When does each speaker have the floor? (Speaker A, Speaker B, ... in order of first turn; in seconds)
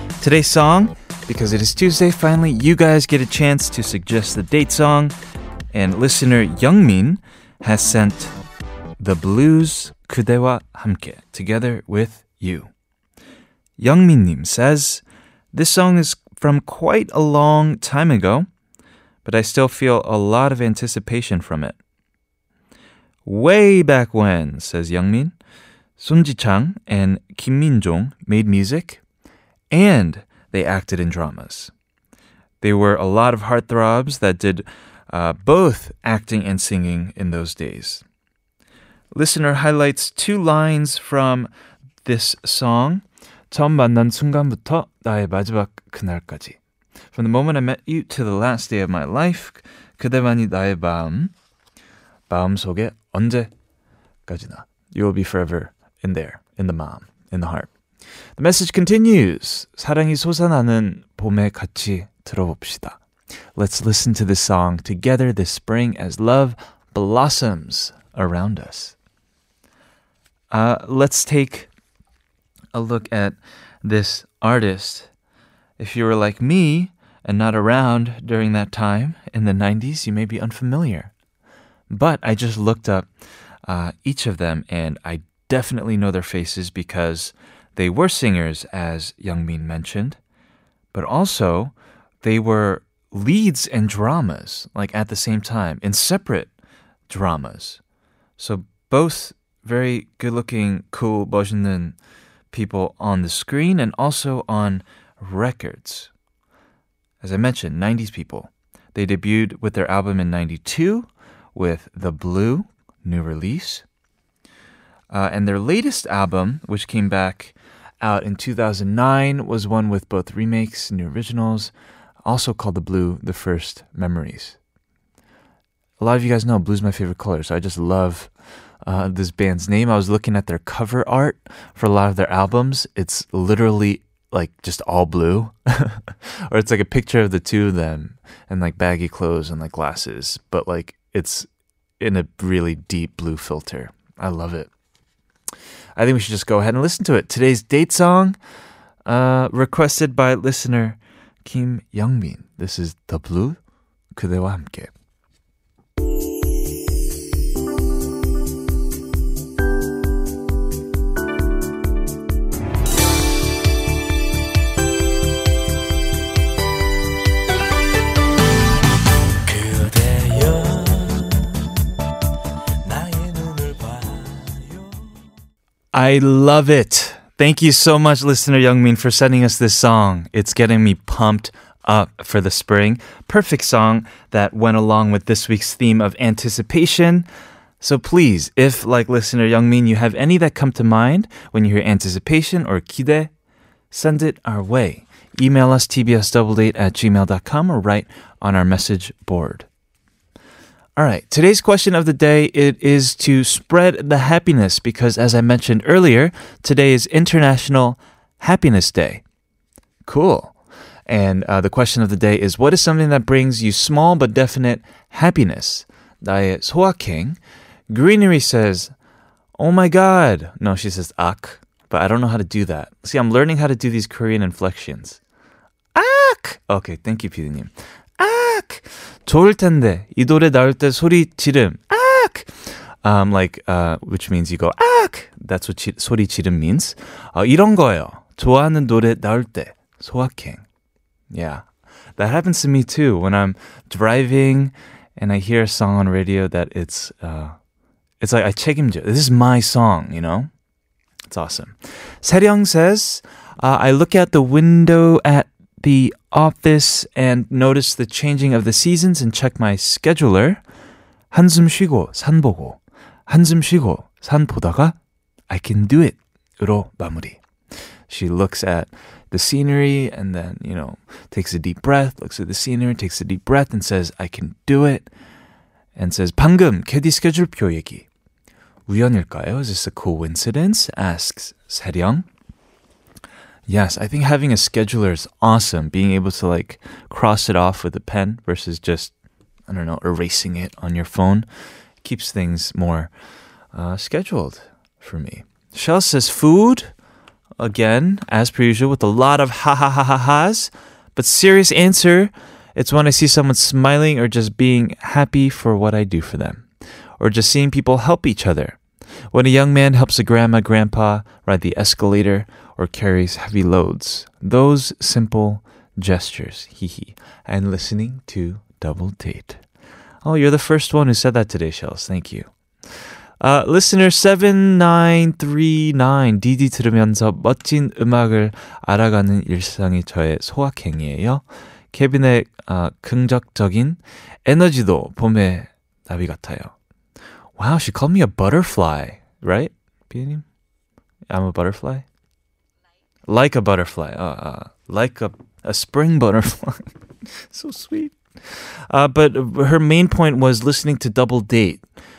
Speaker A: 0.2-5.1, 5.7-8.3, 9.0-12.7, 13.8-18.4, 19.2-21.8, 23.2-25.3, 26.0-29.0, 29.7-31.7, 32.6-38.0, 39.1-41.5, 42.0-46.6, 47.1-51.3, 52.3-53.5, 54.3-57.7, 58.4-63.0, 63.5-68.9, 70.5-71.7, 72.7-75.1, 75.8-81.1, 81.9-83.1, 83.7-90.2, 90.9-96.5, 97.1-97.8, 98.4-102.0, 102.5-106.1, 107.2-113.8, 115.1-121.7, 122.2-124.5, 126.0-128.3, 128.8-141.5, 142.0-144.7, 146.0-148.4, 149.1-153.6, 154.1-154.9, 175.9-187.3, 187.8-193.3, 193.9-199.7, 201.0-209.2, 210.1-210.5, 211.1-217.4, 217.9-218.9, 219.6-225.2, 225.9-232.5, 233.0-240.6, 241.3-241.6, 242.2-247.5, 248.2-250.5, 251.3-260.6, 261.3-264.9, 265.5-267.4, 268.1-275.1, 275.9-278.1, 278.9-282.2, 283.7-289.1, 289.7-291.5, 292.0-293.1, 293.7-296.9, 297.6-306.6, 307.2-308.8, 309.3-319.6, 320.2-322.5, 323.4-336.7, 337.6-340.4, 341.3-342.0, 343.3-346.8, 347.5-351.8